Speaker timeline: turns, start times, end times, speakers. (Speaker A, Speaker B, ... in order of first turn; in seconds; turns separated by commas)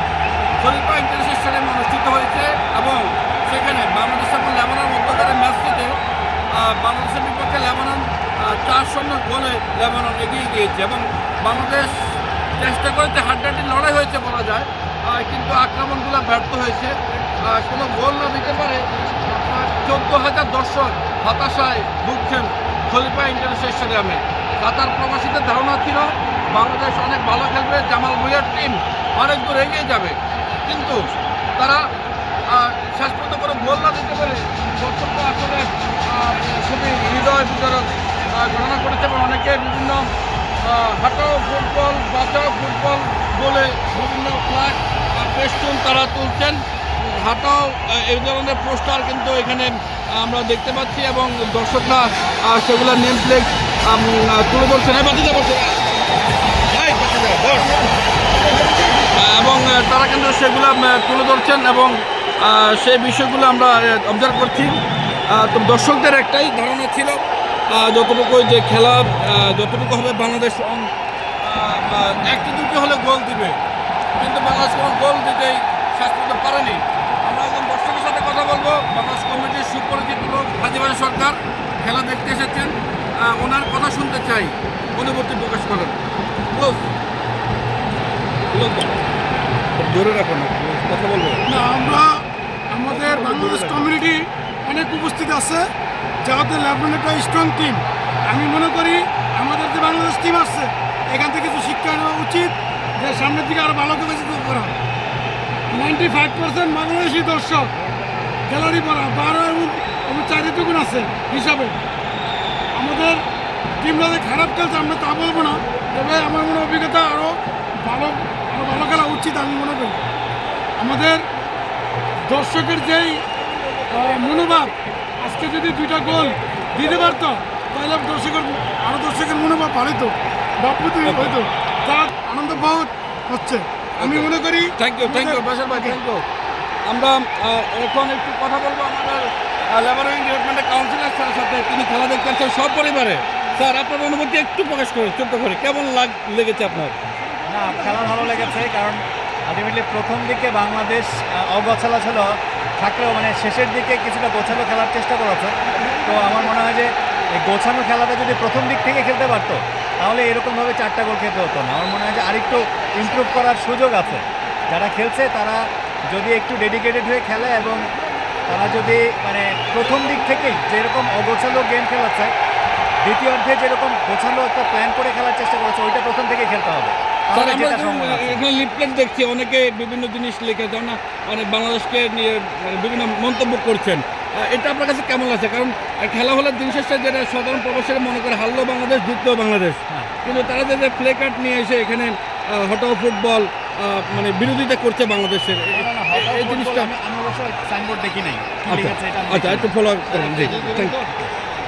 Speaker A: 0.6-6.0, Speaker A: 6.5-11.9, Speaker A: 12.6-31.8, Speaker A: 32.5-40.1, Speaker A: 40.6-55.8, Speaker A: 56.7-57.8, Speaker A: 59.1-70.9, Speaker A: 71.4-73.6, Speaker A: 74.2-86.0, Speaker A: 86.5-86.8, Speaker A: 88.5-88.9, Speaker A: 89.8-91.4, Speaker B: 91.5-95.7, Speaker A: 92.9-93.9, Speaker B: 96.2-104.7, Speaker B: 105.7-107.7, Speaker B: 108.5-111.8, Speaker B: 112.8-113.2, Speaker B: 113.8-120.1, Speaker B: 120.8-121.2, Speaker B: 122.3-123.2, Speaker B: 123.9-136.0, Speaker A: 131.0-131.4, Speaker A: 134.0-136.2, Speaker A: 136.8-147.0, Speaker B: 147.5-148.6, Speaker C: 147.5-167.9, Speaker C: 168.5-172.3, Speaker C: 173.0-178.4, Speaker A: 177.3-196.9, Speaker C: 195.7-201.5, Speaker A: 198.7-201.0